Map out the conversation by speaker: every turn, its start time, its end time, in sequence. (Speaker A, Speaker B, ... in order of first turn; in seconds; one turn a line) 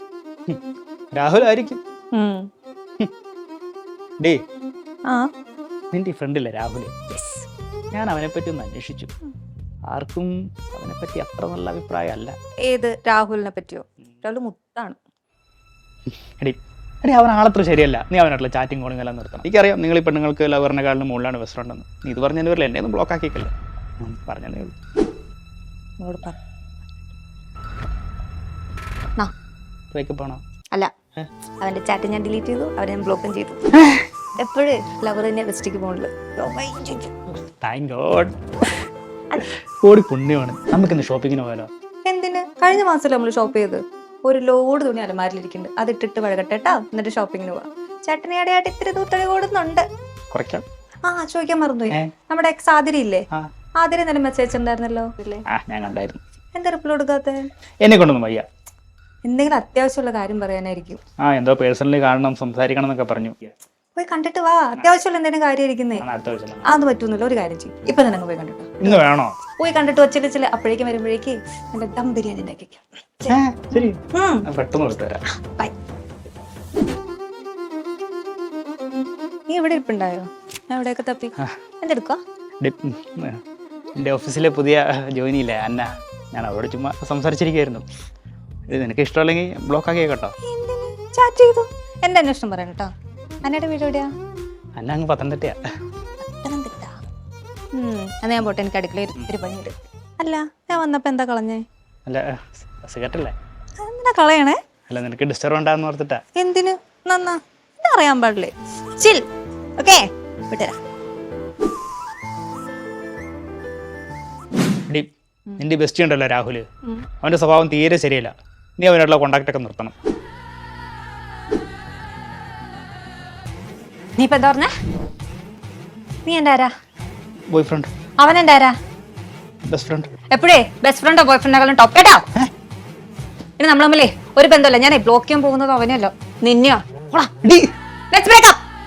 Speaker A: 0.5-1.8
Speaker B: 2.1-2.5
Speaker A: 5.9-6.9
Speaker B: 7.1-7.5
Speaker A: 7.9-9.1
Speaker A: 9.9-12.3
Speaker B: 12.6-15.0
Speaker A: 16.4-24.7
Speaker B: 26.0-26.4
Speaker A: 29.9-30.4
Speaker B: 31.6-33.7
Speaker A: 33.7-34.0
Speaker B: 34.4-37.1
Speaker A: 37.6-38.3
Speaker A: 39.8-41.7
Speaker B: 42.0-49.9
Speaker A: 50.3-50.6
Speaker B: 51.0-53.3
Speaker B: 53.8-55.4
Speaker A: 55.5-56.2
Speaker B: 56.5-57.4
Speaker A: 57.8-58.4
Speaker B: 59.2-61.0
Speaker A: 61.2-63.5
Speaker B: 64.0-66.0
Speaker A: 66.0-66.7
Speaker B: 66.6-69.0
Speaker A: 68.8-69.3
Speaker B: 69.6-74.5
Speaker A: 73.3-75.2
Speaker B: 79.5-82.2
Speaker A: 82.6-83.4
Speaker A: 84.0-87.8
Speaker A: 88.7-90.3
Speaker B: 90.4-92.9
Speaker B: 93.4-94.1
Speaker A: 94.8-95.6
Speaker B: 96.2-97.0
Speaker B: 97.7-101.6
Speaker A: 102.0-103.3
Speaker B: 103.8-104.6
Speaker A: 104.9-106.2
Speaker B: 106.3-109.2
Speaker B: 109.8-110.8
Speaker A: 114.9-116.7
Speaker A: 117.2-119.9
Speaker B: 124.2-124.7
Speaker B: 126.2-126.7
Speaker A: 127.5-127.9
Speaker B: 128.2-128.8
Speaker A: 129.7-130.1
Speaker B: 130.3-132.2
Speaker B: 133.6-137.3
Speaker A: 137.4-137.7
Speaker B: 138.1-138.6